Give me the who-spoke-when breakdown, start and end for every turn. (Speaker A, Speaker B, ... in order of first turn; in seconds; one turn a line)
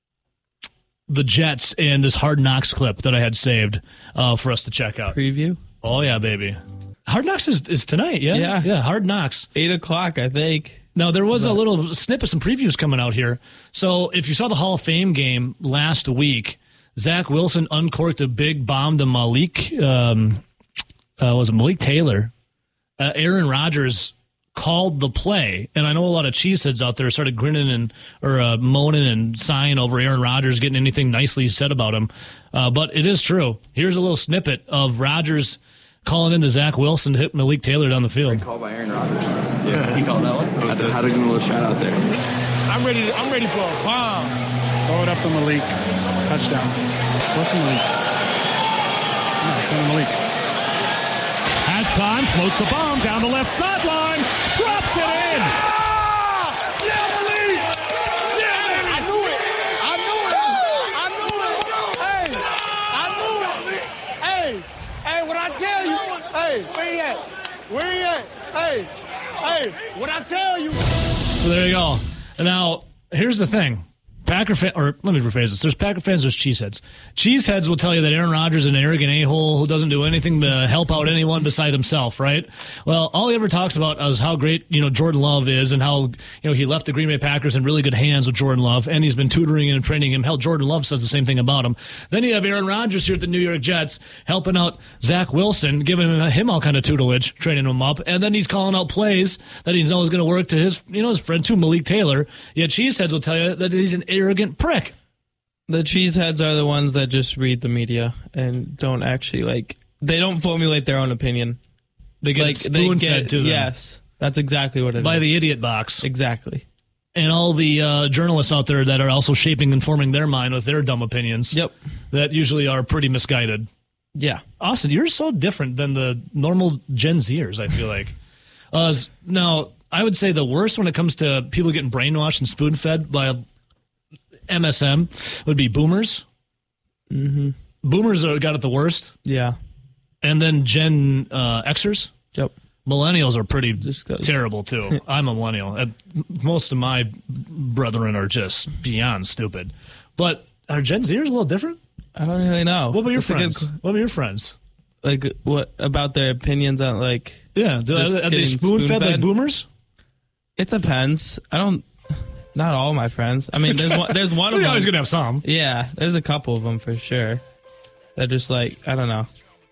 Speaker A: 1.1-5.2
Speaker B: 5.1-5.6
Speaker A: 5.8-9.5
Speaker B: 8.3-8.7
Speaker B: 9.6-11.6
Speaker A: 10.9-20.4
Speaker A: 21.2-22.3
Speaker A: 23.0-38.4
Speaker C: 38.2-42.0
Speaker D: 40.7-41.0
Speaker D: 42.7-46.8
Speaker D: 47.3-47.8
Speaker D: 49.4-50.2
Speaker A: 51.6-55.6
Speaker D: 55.7-70.8
Speaker A: 71.4-105.0
Speaker B: 105.7-111.6
Speaker A: 112.2-113.7
Speaker B: 112.4-115.4
Speaker A: 115.0-116.0
Speaker B: 116.0-116.6
Speaker A: 117.2-121.6
Speaker A: 122.1-123.7
Speaker B: 124.2-124.4
Speaker A: 124.6-128.1
Speaker A: 128.7-133.4
Speaker A: 134.5-136.2
Speaker B: 137.1-137.6
Speaker A: 137.8-139.1
Speaker B: 139.2-139.6
Speaker A: 140.2-142.1
Speaker A: 142.9-151.8
Speaker B: 143.8-144.4
Speaker B: 152.2-153.7
Speaker A: 152.9-154.6
Speaker B: 155.0-159.3
Speaker A: 157.6-159.7
Speaker B: 160.6-167.4
Speaker A: 163.6-165.4
Speaker B: 168.2-169.3